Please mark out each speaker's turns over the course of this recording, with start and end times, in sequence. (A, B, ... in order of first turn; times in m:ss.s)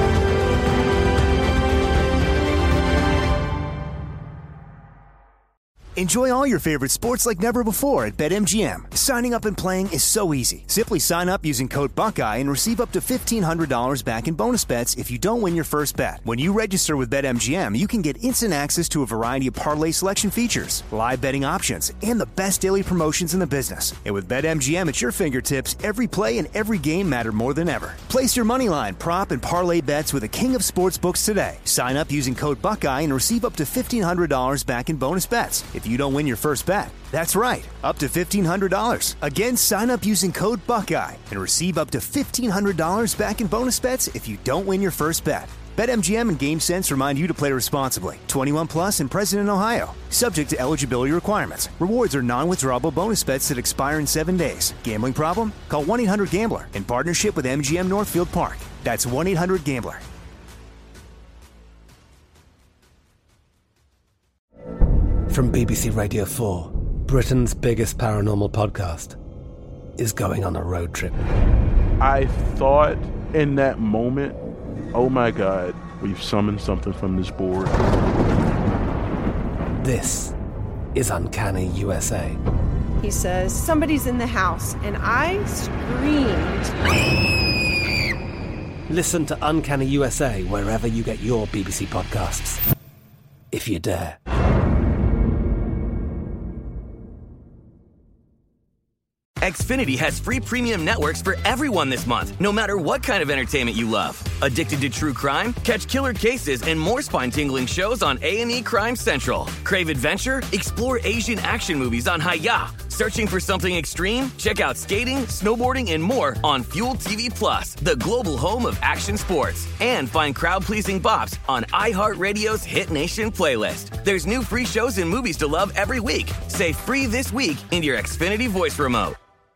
0:06.0-1:00.0 A
1:05.3-1:09.2 B
1:10.0-1:11.2 B
1:12.0-1:14.4 C
1:14.9-1:17.8 C
1:19.8-1:20.3 B
1:21.0-1:22.4 B
1:23.0-1:26.7 D
1:28.9-1:32.6 B
1:33.5-1:34.2 B
1:39.4-2:09.2 E